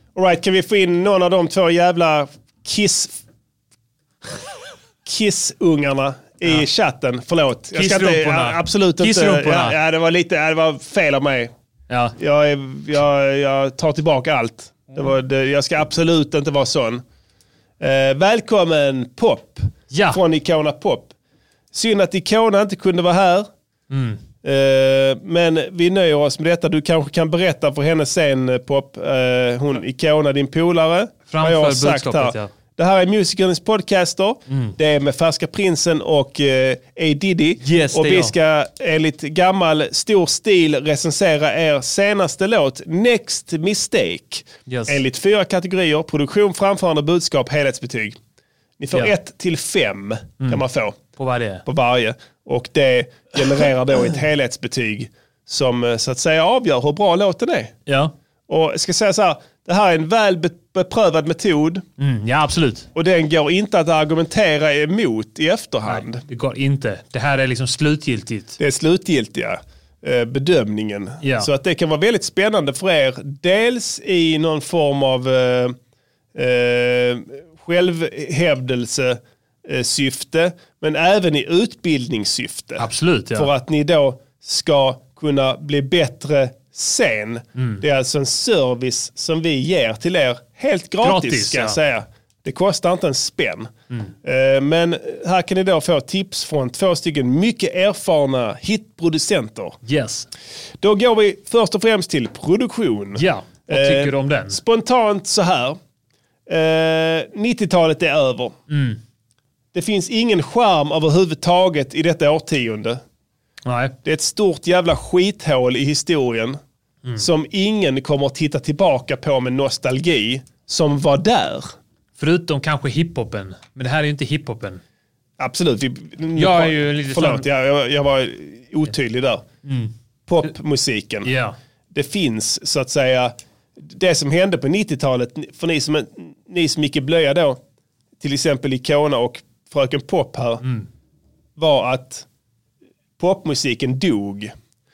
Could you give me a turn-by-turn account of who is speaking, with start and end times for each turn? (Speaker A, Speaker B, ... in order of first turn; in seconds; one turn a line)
Speaker A: 0.1-3.2
Speaker A: 5.0-11.5
Speaker B: 7.7-9.8
Speaker B: 11.9-12.1
Speaker A: 12.2-17.0
Speaker A: 17.8-21.1
Speaker B: 19.9-20.2
Speaker A: 21.7-23.5
Speaker B: 23.9-24.2
Speaker A: 24.4-48.2
Speaker B: 31.3-32.5
Speaker B: 34.5-34.8
Speaker B: 37.6-38.3
Speaker B: 44.7-45.0
Speaker A: 48.8-51.0
Speaker B: 51.2-51.6
Speaker A: 51.6-57.7
Speaker B: 57.9-58.1
Speaker A: 58.5-61.8
Speaker B: 62.0-62.9
Speaker A: 62.9-66.2
Speaker B: 65.8-68.6
Speaker A: 68.6-75.8
Speaker B: 71.2-71.5
Speaker A: 76.3-93.7
Speaker B: 82.8-83.5
Speaker B: 87.5-87.8
Speaker B: 91.0-91.8
Speaker A: 94.2-99.8
Speaker B: 99.8-100.3
Speaker A: 100.8-105.8
Speaker B: 103.1-104.6
Speaker A: 106.5-108.5
Speaker B: 108.7-109.0
Speaker A: 109.7-113.0
Speaker B: 113.7-113.9
Speaker A: 114.0-116.6
Speaker A: 117.2-121.7
Speaker B: 122.2-124.8
Speaker A: 125.4-129.4
Speaker B: 126.3-127.5
Speaker B: 129.6-129.9
Speaker A: 130.3-131.3
Speaker B: 131.2-131.6
Speaker A: 131.9-137.6
Speaker A: 138.2-140.6
Speaker A: 141.6-142.2
Speaker A: 143.2-144.5